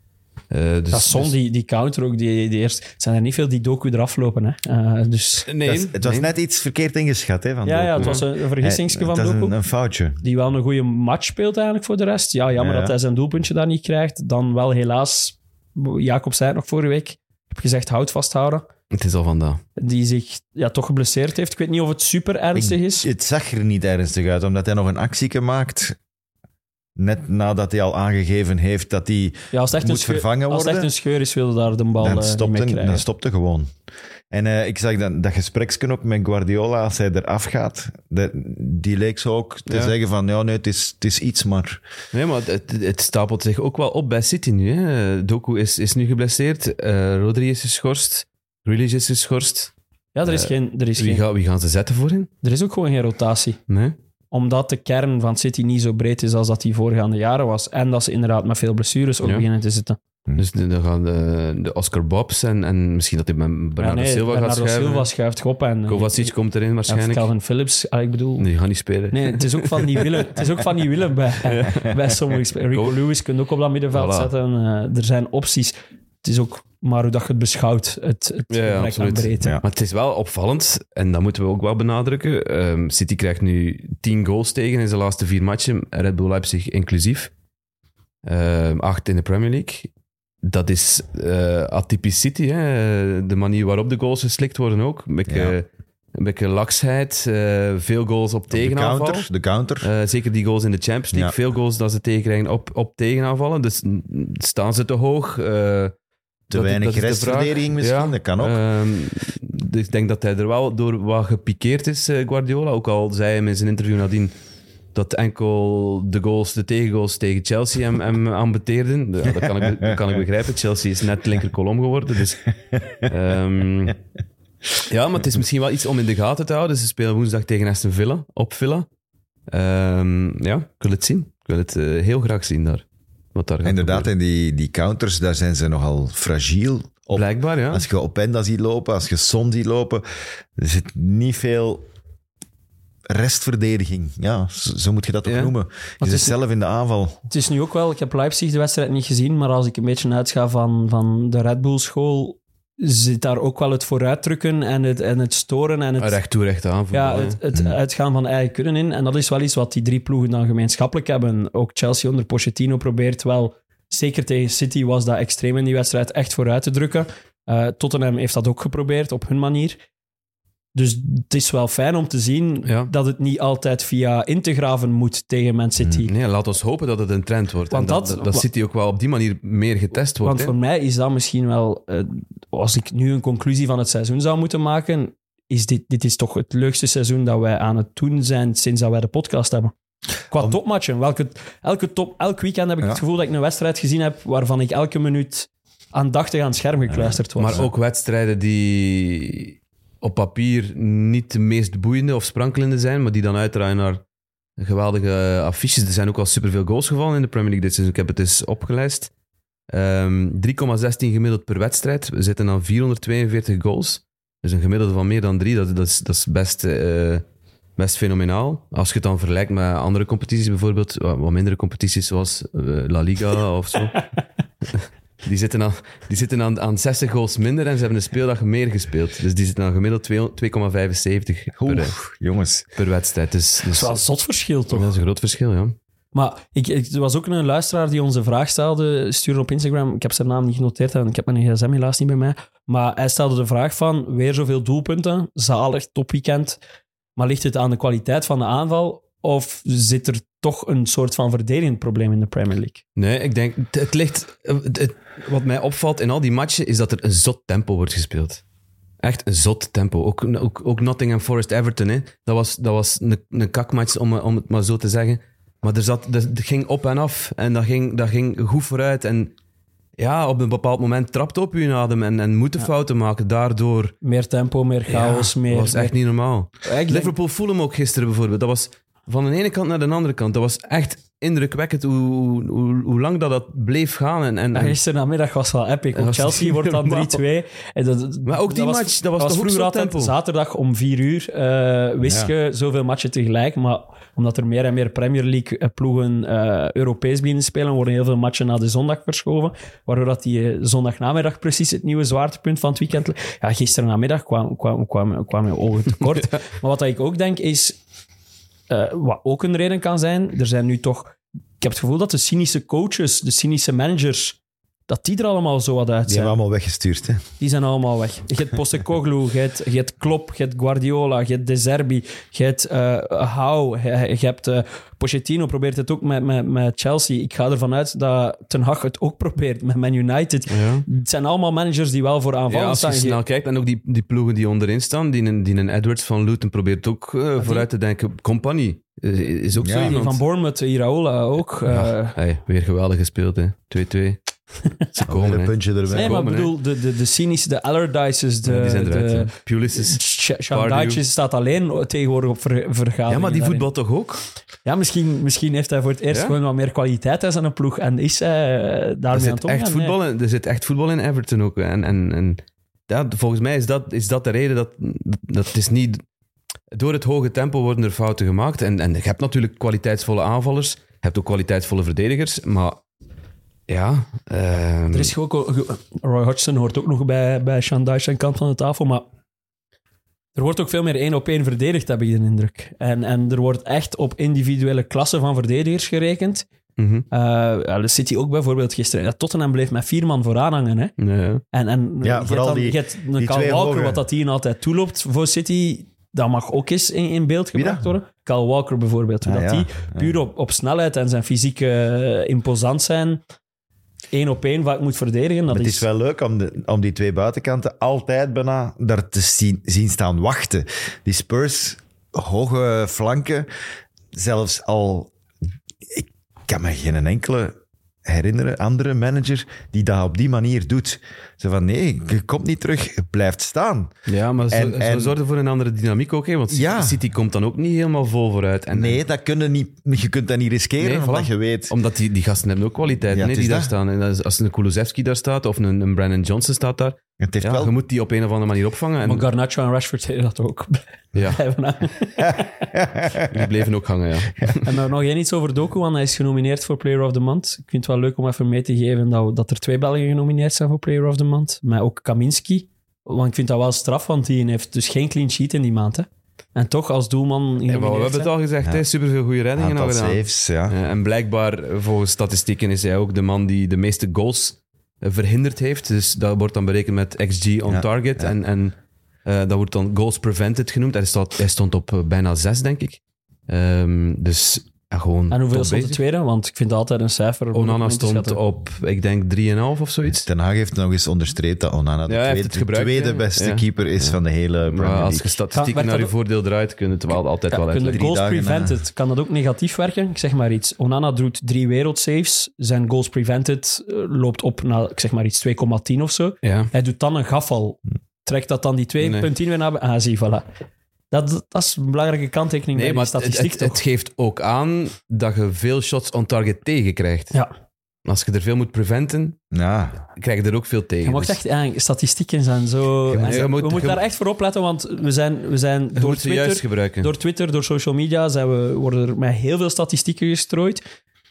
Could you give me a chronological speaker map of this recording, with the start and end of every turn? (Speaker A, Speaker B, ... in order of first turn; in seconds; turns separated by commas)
Speaker A: 0.5-1.3, Speaker B: 0.9-5.5, Speaker A: 5.5-6.3, Speaker C: 5.6-10.2, Speaker B: 7.7-9.6, Speaker B: 10.2-18.6, Speaker C: 12.6-12.9, Speaker A: 18.9-19.6, Speaker B: 19.8-23.1, Speaker C: 22.6-26.0, Speaker C: 27.0-30.9, Speaker B: 29.5-33.0, Speaker C: 32.0-33.7, Speaker C: 34.3-41.8, Speaker A: 39.7-39.9, Speaker A: 42.1-49.7, Speaker B: 50.1-51.2, Speaker A: 50.3-52.3, Speaker B: 52.4-53.6, Speaker A: 53.7-54.0, Speaker B: 54.3-60.0, Speaker A: 60.4-65.1, Speaker B: 63.8-66.3, Speaker A: 65.9-67.3, Speaker B: 66.9-68.5, Speaker A: 68.4-70.3, Speaker B: 69.1-79.5, Speaker A: 71.5-72.0, Speaker A: 73.9-74.3, Speaker A: 78.5-87.3, Speaker A: 88.2-89.9, Speaker A: 90.4-99.3, Speaker C: 95.3-95.6, Speaker C: 98.5-99.9, Speaker A: 99.8-105.9, Speaker C: 106.5-108.6, Speaker A: 106.5-114.3, Speaker A: 114.9-124.0, Speaker A: 124.9-128.9, Speaker A: 129.5-132.8, Speaker A: 133.3-134.1, Speaker C: 133.6-140.0, Speaker A: 137.1-137.9, Speaker C: 140.6-141.8, Speaker C: 143.1-147.2, Speaker A: 145.2-145.5, Speaker B: 146.0-146.3, Speaker B: 147.3-156.2, Speaker A: 156.0-157.4, Speaker B: 156.9-169.8, Speaker B: 170.7-176.1, Speaker A: 172.7-172.9, Speaker A: 176.1-180.5, Speaker B: 177.7-178.5, Speaker B: 180.2-189.7, Speaker B: 190.3-197.6, Speaker C: 197.0-197.7, Speaker A: 197.4-204.0, Speaker A: 204.6-209.1, Speaker A: 209.7-217.2, Speaker A: 217.8-224.0, Speaker A: 224.7-232.0, Speaker C: 231.6-232.7, Speaker A: 232.8-233.9, Speaker B: 233.7-234.9, Speaker A: 234.7-235.8, Speaker B: 236.1-246.6, Speaker B: 247.2-252.8, Speaker A: 253.0-258.4, Speaker A: 259.0-269.3, Speaker A: 270.0-274.0, Speaker B: 274.0-275.9, Speaker A: 274.9-284.8, Speaker B: 276.6-277.1, Speaker B: 284.5-307.8, Speaker A: 285.9-287.2, Speaker A: 288.3-290.1, Speaker C: 292.0-292.3, Speaker B: 308.7-316.4, Speaker C: 316.1-317.2, Speaker B: 317.4-333.2, Speaker A: 330.5-330.9, Speaker A: 332.5-340.2, Speaker B: 337.4-337.7, Speaker C: 339.6-340.0, Speaker B: 339.8-342.1, Speaker A: 341.7-344.2, Speaker A: 344.9-346.5, Speaker C: 345.1-346.2, Speaker B: 345.9-353.7, Speaker A: 348.4-350.0, Speaker A: 350.5-351.0, Speaker A: 353.1-354.2, Speaker B: 354.6-360.0, Speaker A: 359.1-366.0, Speaker A: 366.7-372.8, Speaker A: 373.7-375.1, Speaker B: 374.9-379.1, Speaker B: 380.4-386.5, Speaker A: 386.8-387.1, Speaker B: 387.1-390.9, Speaker A: 391.0-391.4, Speaker B: 391.5-403.2, Speaker C: 392.0-394.0, Speaker C: 397.6-397.9, Speaker C: 399.2-400.2, Speaker B: 404.1-405.9, Speaker C: 405.5-413.5, Speaker C: 414.1-415.1, Speaker C: 415.9-417.5, Speaker C: 418.1-423.9, Speaker A: 424.1-429.0, Speaker C: 424.5-425.2, Speaker C: 426.5-427.0, Speaker C: 428.7-431.7, Speaker A: 430.8-439.2, Speaker C: 433.1-433.7, Speaker C: 437.2-437.7, Speaker B: 439.1-442.7, Speaker C: 442.3-443.3, Speaker A: 443.3-444.7, Speaker B: 444.6-458.3, Speaker A: 457.7-476.0, Speaker C: 459.6-460.8, Speaker C: 467.7-468.3, Speaker B: 475.3-478.4, Speaker A: 477.5-480.3, Speaker C: 480.1-485.4, Speaker A: 482.1-488.0, Speaker B: 485.5-486.1, Speaker B: 487.5-500.5, Speaker C: 487.9-488.8, Speaker A: 496.4-496.7, Speaker A: 499.0-499.3, Speaker B: 501.1-503.8, Speaker A: 502.7-507.3, Speaker A: 508.1-509.4, Speaker C: 509.5-510.0, Speaker A: 510.2-511.4, Speaker B: 511.0-520.8, Speaker A: 513.1-514.0, Speaker A: 516.0-517.1